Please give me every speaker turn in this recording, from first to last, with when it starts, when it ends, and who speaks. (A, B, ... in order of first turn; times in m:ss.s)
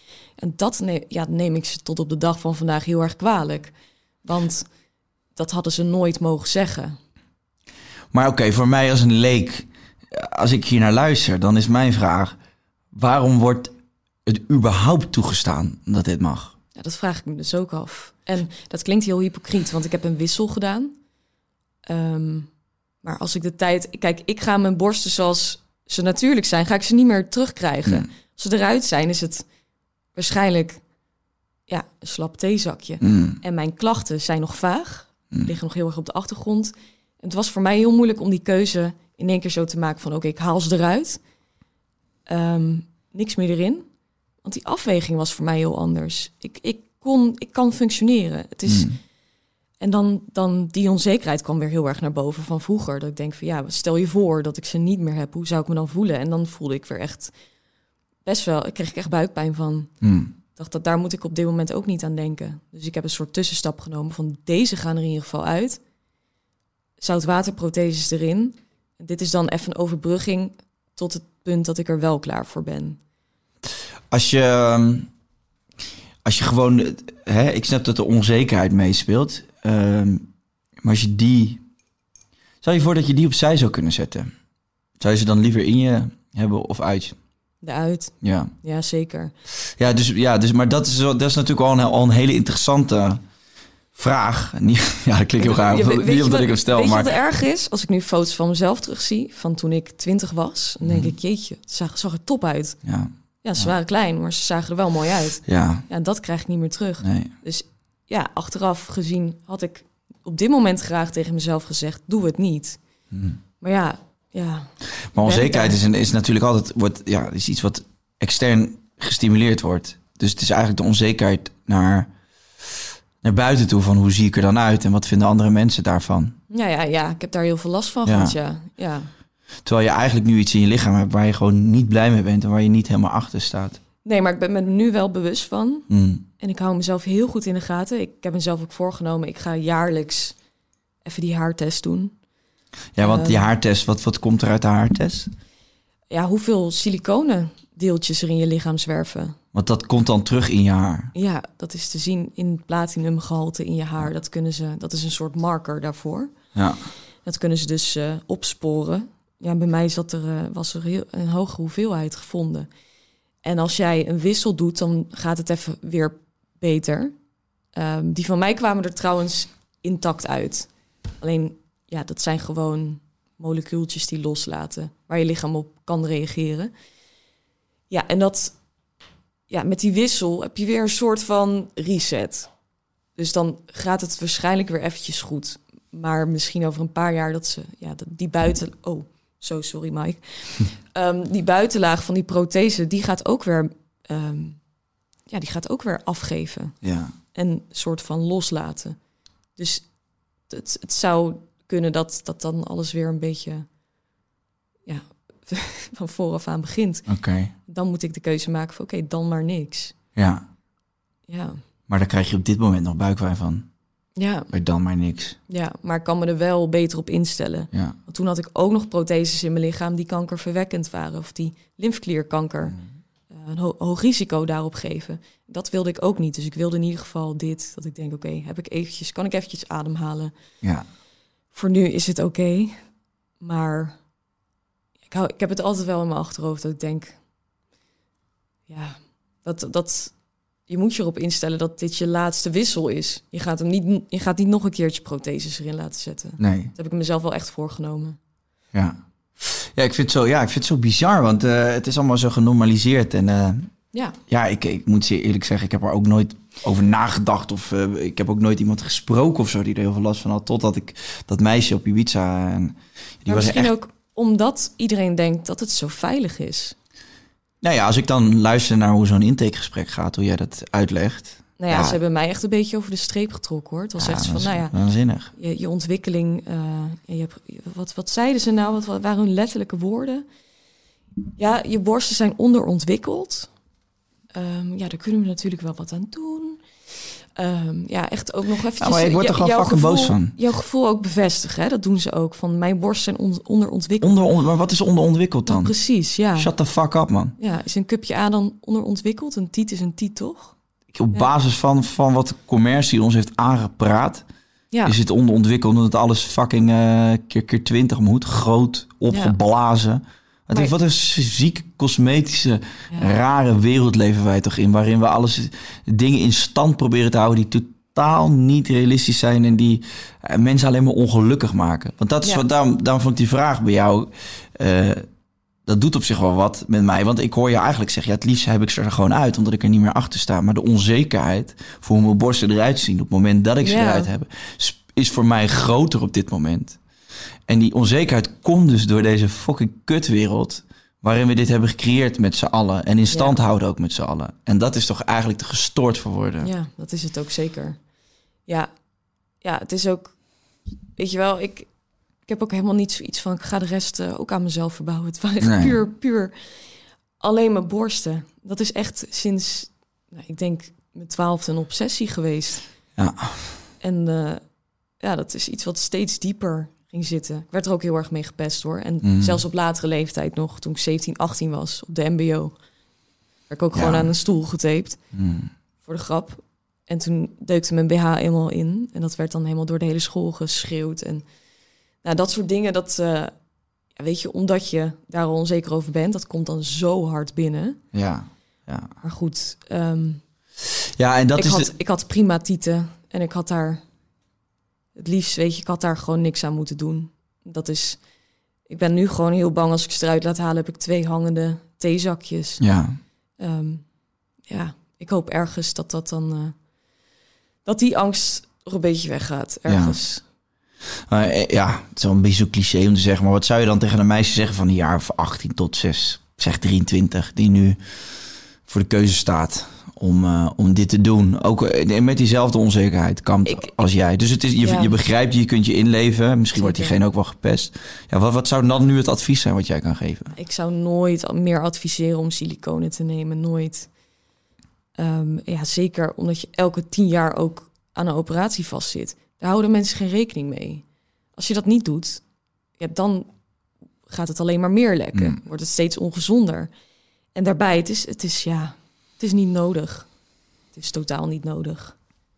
0:00.4-0:03.7 A
0:04.2-0:04.7 A
0:05.4-0:07.0 A
0:08.1-0:12.4 B
0:12.9-0:13.7 B
0:14.3-0:16.5 B
0:16.8-0:21.0 A
0:21.9-0:22.5 A
0:23.0-0:29.4 A
0:30.2-0:30.8 A
0:31.7-0:41.2 A
0:33.0-0:33.4 B
0:42.3-0:43.8 A
0:44.4-0:48.9 A
0:48.7-0:49.0 B
0:49.8-0:57.3 A
0:58.2-0:59.9 A
1:00.0-1:00.3 B
1:00.6-1:05.8 A
1:07.0-1:13.0 A
1:14.1-1:15.1 B
1:16.2-1:20.3 B
1:20.8-1:21.6 B
1:22.6-1:24.3 B
1:25.0-1:27.2 B
1:27.6-1:29.3 A
1:28.2-1:28.5 B
1:29.8-1:33.2 B
1:34.0-1:37.1 B
1:35.4-1:42.8 A
1:40.8-1:41.1 B
1:42.8-1:43.7 B
1:43.4-1:52.8 A
1:45.5-1:45.8 B
1:47.0-1:47.3 B
1:53.1-1:53.4 B
1:53.6-1:55.8 A
1:55.1-2:02.1 B
2:03.2-2:06.4 B
2:06.5-2:09.1 A
2:08.0-2:08.4 B
2:09.6-2:13.8 B
2:14.0-2:15.9 A
2:15.9-2:16.2 B
2:16.4-2:20.4 A
2:21.0-2:22.1 A
2:23.0-2:25.3 B
2:23.0-2:23.5 A
2:26.1-2:29.4 A
2:29.5-2:31.1 B
2:31.2-2:36.3 A
2:37.2-2:42.7 A
2:43.4-2:47.1 A
2:47.8-2:50.7 A
2:51.2-2:56.7 A
2:57.9-2:58.6 A
2:59.5-3:02.5 A
3:03.2-3:14.6 A
3:15.3-3:16.8 A
3:16.8-3:17.1 B
3:17.3-3:19.0 A
3:19.6-3:19.9 A
3:20.5-3:23.7 A
3:24.9-3:27.0 A
3:27.1-3:27.5 B
3:27.7-3:30.0 A
3:30.2-3:30.4 B
3:31.3-3:31.6 A
3:31.9-3:33.7 B
3:34.2-3:34.5 A
3:34.5-3:35.4 B
3:35.5-3:42.8 A
3:43.3-3:50.3 A
3:51.5-3:52.8 A
3:53.4-3:54.0 A
3:55.1-3:57.2 A
3:58.7-4:00.2 A
4:00.7-4:08.2 A
4:06.4-4:06.7 B
4:08.7-4:13.7 B
4:14.3-4:23.7 B
4:23.3-4:26.8 A
4:27.6-4:32.0 B
4:31.6-4:34.7 A
4:34.0-4:35.3 B
4:35.4-4:40.2 A
4:41.4-4:43.5 A
4:44.3-4:46.6 A
4:47.4-4:54.2 A
4:48.8-4:50.4 B
4:54.0-4:55.7 B
4:55.5-4:56.5 A
4:56.4-4:57.4 B
4:57.4-5:00.6 A
5:00.9-5:04.2 B
5:04.8-5:25.0 B
5:09.1-5:09.3 A
5:25.7-5:36.8 B
5:33.6-5:34.1 A
5:37.5-5:46.5 B
5:43.1-5:43.4 A
5:46.4-5:47.8 A
5:49.4-5:50.2 A
5:51.0-5:51.7 A
5:52.3-5:56.6 A
5:55.4-5:55.8 B
5:57.2-6:02.6 A
6:03.0-6:03.6 B
6:03.8-6:04.4 A
6:05.0-6:12.6 A
6:09.0-6:09.4 B
6:13.5-6:15.0 A
6:13.7-6:14.1 B
6:15.1-6:15.5 B
6:15.8-6:21.2 A
6:22.0-6:23.3 A
6:24.0-6:27.8 A
6:27.9-6:28.9 B
6:29.0-6:30.2 A
6:31.0-6:31.7 B
6:31.4-6:33.8 A
6:35.0-6:38.0 A
6:38.7-6:42.6 A
6:42.6-6:43.0 B
6:43.4-6:43.8 A
6:44.5-6:46.6 A
6:47.6-6:50.2 A
6:49.7-6:50.0 B
6:51.1-6:57.8 B
6:58.7-7:10.3 B
7:03.5-7:03.7 A
7:04.6-7:04.9 A
7:06.6-7:07.0 A
7:10.3-7:13.9 A
7:15.0-7:20.8 A
7:21.4-7:22.2 A
7:22.8-7:23.3 A
7:24.1-7:26.7 A
7:27.4-7:30.1 A
7:30.7-7:32.0 A